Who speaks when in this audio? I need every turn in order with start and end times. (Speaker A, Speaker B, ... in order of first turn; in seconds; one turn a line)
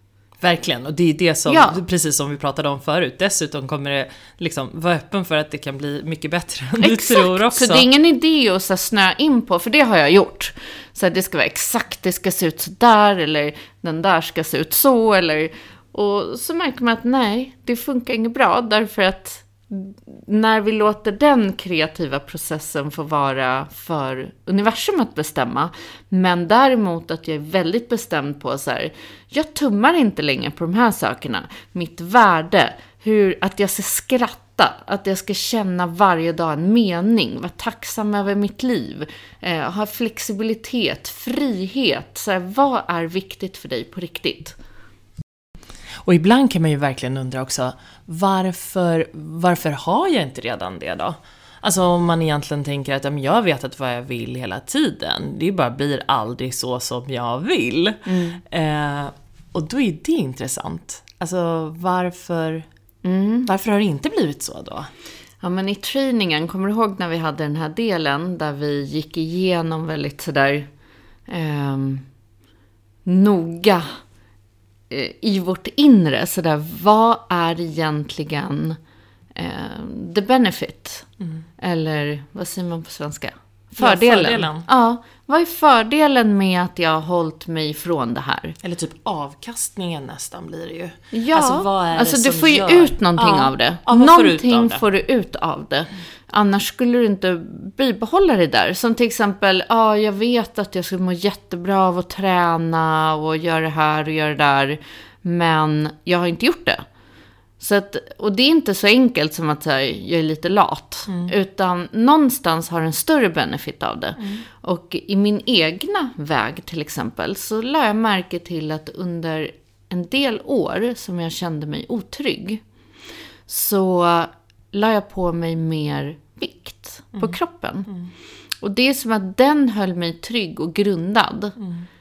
Speaker A: 0.4-7.8
Speaker B: 1.5-1.8
Speaker B: 6.8-44.5
Speaker A: 46.0-62.7
Speaker B: 58.0-58.4
Speaker B: 63.0-63.5
Speaker A: 63.5-64.9
Speaker B: 65.4-70.7
Speaker B: 71.3-72.0
Speaker B: 73.0-74.0
Speaker B: 74.9-78.8
Speaker B: 79.3-81.1
Speaker A: 81.2-81.5
Speaker B: 81.6-88.5
Speaker A: 83.8-84.7
Speaker A: 88.6-94.8
Speaker B: 91.1-106.8
Speaker B: 107.6-122.6
Speaker A: 111.1-111.3
Speaker A: 114.2-114.4
Speaker B: 123.5-127.9
Speaker A: 127.2-128.1
Speaker B: 128.6-131.5
Speaker A: 131.6-131.8